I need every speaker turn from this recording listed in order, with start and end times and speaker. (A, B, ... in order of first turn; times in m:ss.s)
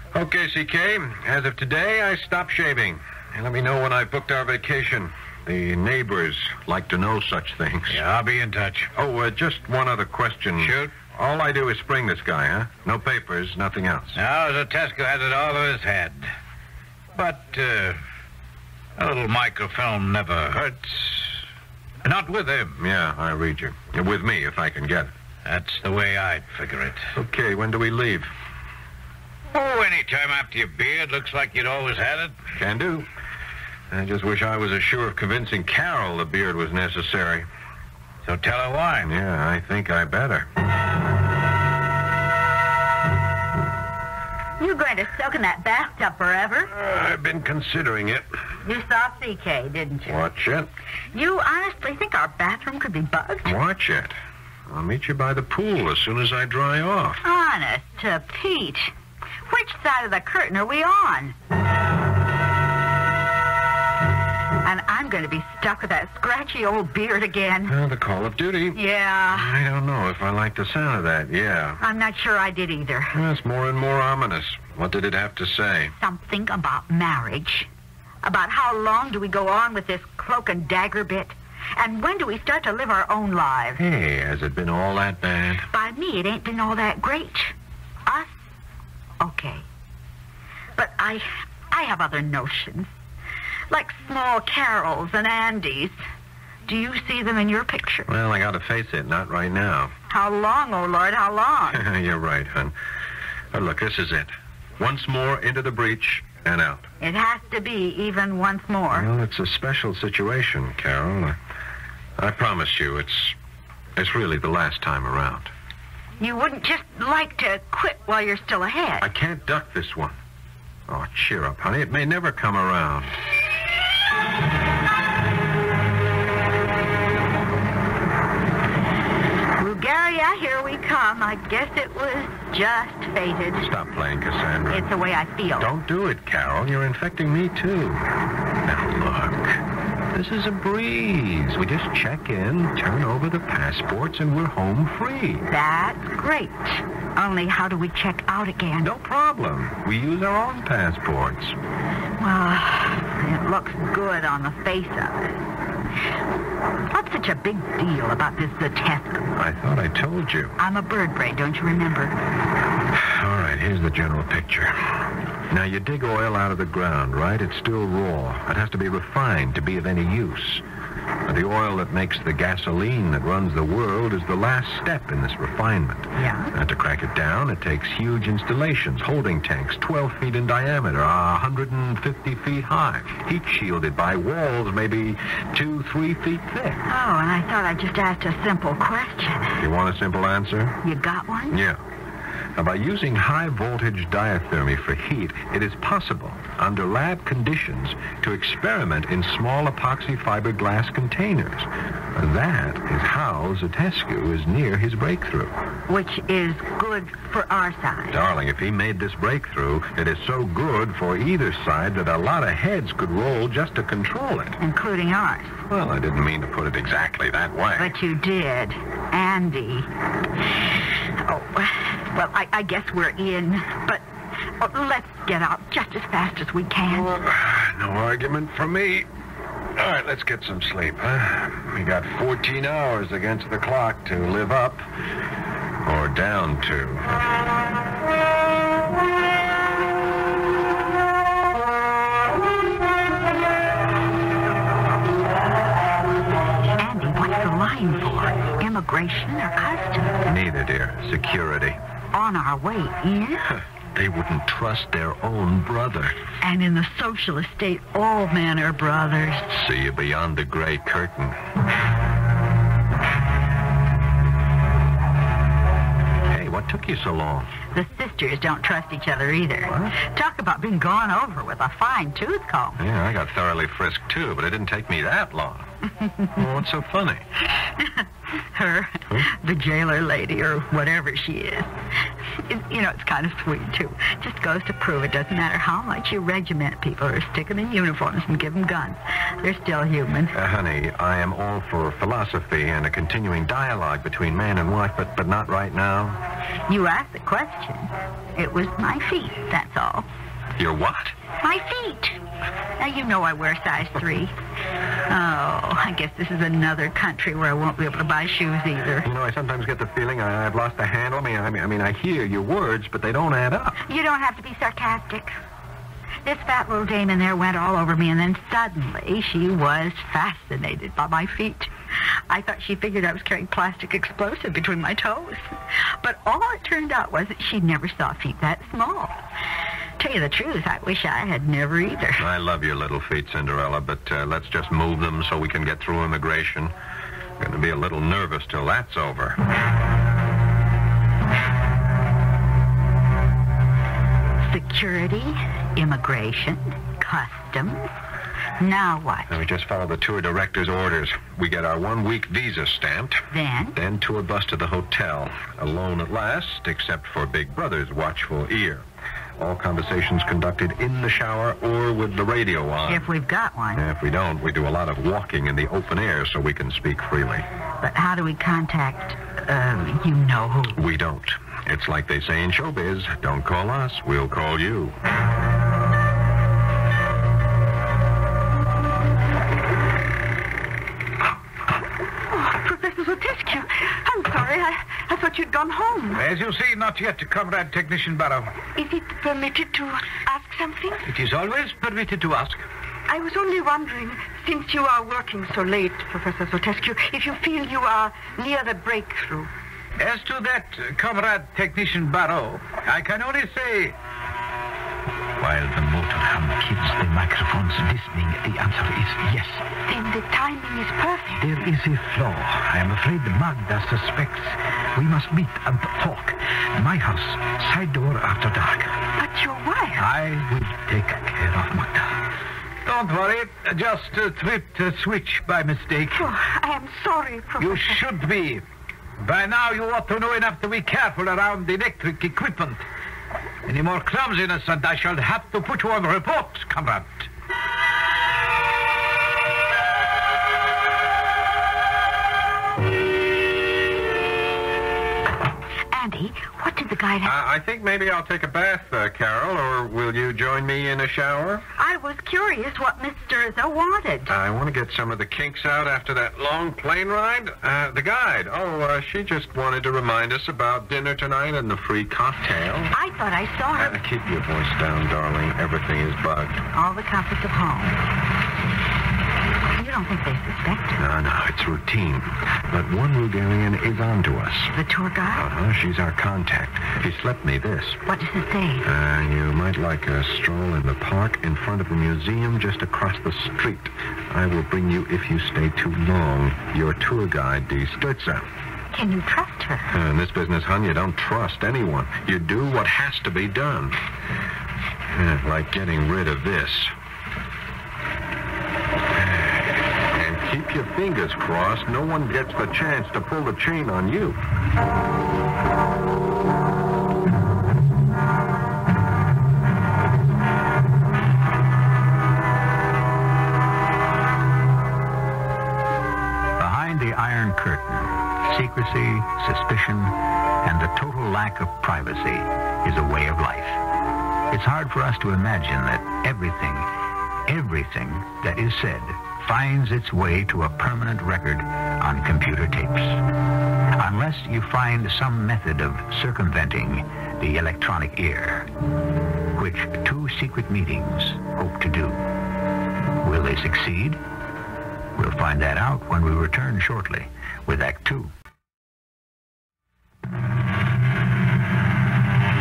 0:00.1-0:08.0 A
0:07.9-0:08.9 B
0:08.9-0:14.2 A
0:10.6-0:10.9 B
0:14.1-0:16.3 B
0:17.2-0:18.0 B
0:19.0-0:21.4 B
0:22.0-0:22.8 B
0:22.8-0:25.1 A
0:25.4-0:27.1 B
0:27.1-0:28.3 A
0:29.5-0:32.4 B
0:32.5-0:33.1 A
0:33.9-0:37.5 A
0:38.2-0:39.1 B
0:39.0-0:40.5 A
0:44.6-0:46.7 C
0:46.7-0:48.3 A
0:48.6-0:50.1 C
0:50.0-0:50.7 A
0:51.1-0:53.5 C
0:53.4-0:54.2 A
0:54.7-0:57.2 A
0:57.2-0:58.9 C
0:59.5-1:01.4 C
1:04.6-1:07.7 C
1:07.7-1:08.8 A
1:08.7-1:09.6 C
1:09.3-1:11.8 A
1:11.8-1:13.2 C
1:13.1-1:16.0 A
1:16.0-1:17.7 C
1:18.2-1:23.8 C
1:23.8-1:25.7 A
1:25.7-1:27.5 C
1:28.0-1:28.3 C
1:29.2-1:29.6 C
1:30.8-1:32.9 C
1:33.7-1:36.0 C
1:36.6-1:38.1 C
1:38.1-1:39.9 A
1:40.1-1:41.8 C
1:41.7-1:42.7 A
1:43.5-1:46.8 A
1:47.0-1:49.1 C
1:48.9-1:51.4 A
1:52.2-1:53.4 A
1:54.0-1:55.5 A
1:56.2-1:59.1 C
1:59.0-2:00.2 A
2:00.9-2:03.2 A
2:09.6-2:13.7 C
2:13.6-2:14.9 A
2:14.7-2:15.7 C
2:15.6-2:18.0 A
2:18.6-2:19.6 A
2:20.1-2:25.4 A
2:25.5-2:28.9 C
2:28.8-2:31.6 A
2:32.2-2:35.4 C
2:36.9-2:39.2 C
2:39.4-2:40.6 A
2:40.6-2:42.2 C
2:42.9-2:44.8 A
2:45.5-2:50.6 A
2:51.2-3:06.8 A
2:56.2-2:56.5 C
3:06.8-3:09.6 C
3:09.6-3:10.8 A
3:10.8-3:11.6 C
3:11.5-3:11.8 A
3:12.6-3:25.6 A
3:25.9-3:28.2 C
3:28.1-3:34.6 A
3:34.6-3:35.6 C
3:35.7-3:37.9 A
3:37.8-3:39.9 C
3:41.2-3:47.1 C
3:47.0-3:49.1 A
3:49.8-3:54.8 A
3:55.8-3:57.2 A
4:06.8-4:10.2 C
4:10.2-4:11.8 A
4:12.1-4:13.4 C
4:13.5-4:16.2 A
4:16.4-4:19.5 C
4:19.5-4:21.4 A
4:26.3-4:27.5 A
4:27.7-4:32.8 C
4:32.8-4:35.6 A
4:36.4-4:37.2 A
4:37.8-4:41.7 C
4:42.4-4:50.3 C
4:50.3-4:56.2 A
4:56.7-5:00.0 C
5:00.6-5:01.1 A
5:01.4-5:02.2 C
5:02.8-5:04.3 C
5:05.1-5:09.1 C
5:09.0-5:13.8 A
5:13.8-5:15.4 C
5:16.2-5:29.2 C
5:30.0-5:32.2 C
5:32.2-5:36.7 A
5:37.4-5:39.4 A
5:44.4-5:47.9 C
5:48.6-5:49.4 C
5:49.3-5:58.8 A
5:53.3-5:53.8 C
5:59.4-6:03.1 A
6:02.9-6:03.8 C
6:03.7-6:07.5 A
6:07.8-6:10.8 C
6:10.8-6:15.0 A
6:22.3-6:26.2 D
6:26.1-6:28.6 B
6:28.7-6:31.1 D
6:31.0-6:32.6 B
6:33.1-6:39.5 D
6:40.0-6:43.9 B
6:45.4-6:49.6 B
6:49.8-6:51.4 D
6:51.4-6:59.0 B
6:59.2-7:00.0 D
7:00.0-7:02.3 B
7:02.8-7:06.3 B
7:06.1-7:08.0 D
7:07.6-7:08.6 B
7:09.2-7:12.8 B
7:13.6-7:17.3 B
7:25.9-7:27.3 C
7:27.2-7:31.6 A
7:31.8-7:34.3 C
7:34.3-7:42.9 A
7:42.9-7:44.0 C
7:43.8-7:46.6 A
7:46.7-7:48.0 C
7:49.8-7:51.0 C
7:51.0-7:54.7 A
7:54.7-7:55.5 C
7:55.3-7:58.0 A
7:58.0-7:58.9 C
7:58.8-8:08.4 A
8:08.9-8:09.9 C
8:09.9-8:14.0 A
8:15.1-8:16.9 A
8:19.1-8:24.4 A
8:36.6-8:43.8 E
8:44.5-8:46.9 E
8:47.5-8:53.2 E
8:53.9-8:58.7 E
8:59.5-9:02.3 E
9:03.2-9:04.2 E
9:05.2-9:08.3 E